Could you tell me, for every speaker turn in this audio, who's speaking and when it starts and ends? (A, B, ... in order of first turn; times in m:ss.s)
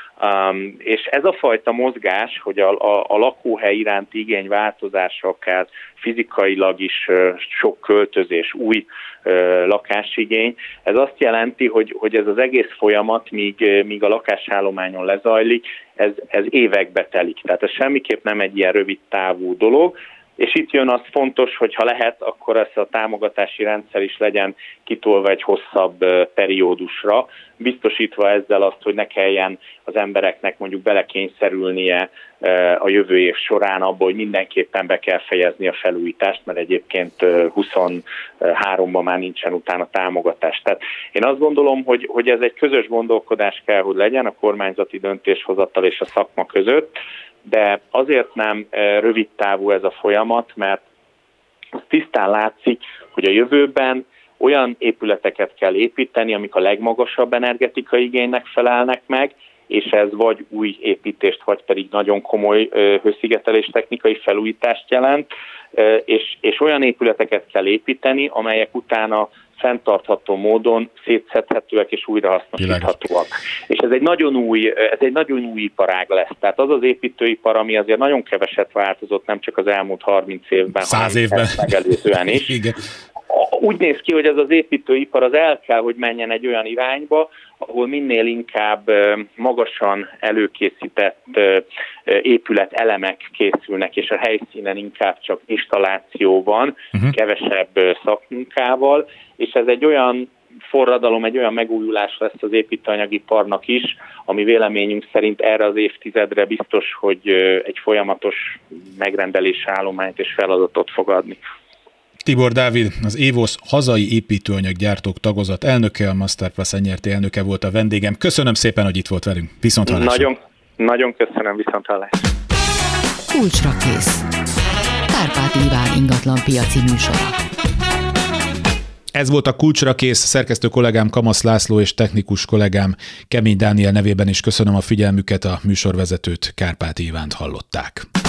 0:00.2-0:50.8 A
0:51.8-1:22.6 A
1:12.6-1:12.9 B
1:20.8-1:21.6 B
1:22.3-1:22.8 B
1:23.3-1:51.4 A
1:52.2-2:00.3 B
1:59.8-2:02.1 A
2:03.3-2:04.2 C
2:05.1-2:07.4 C
2:09.1-2:18.0 B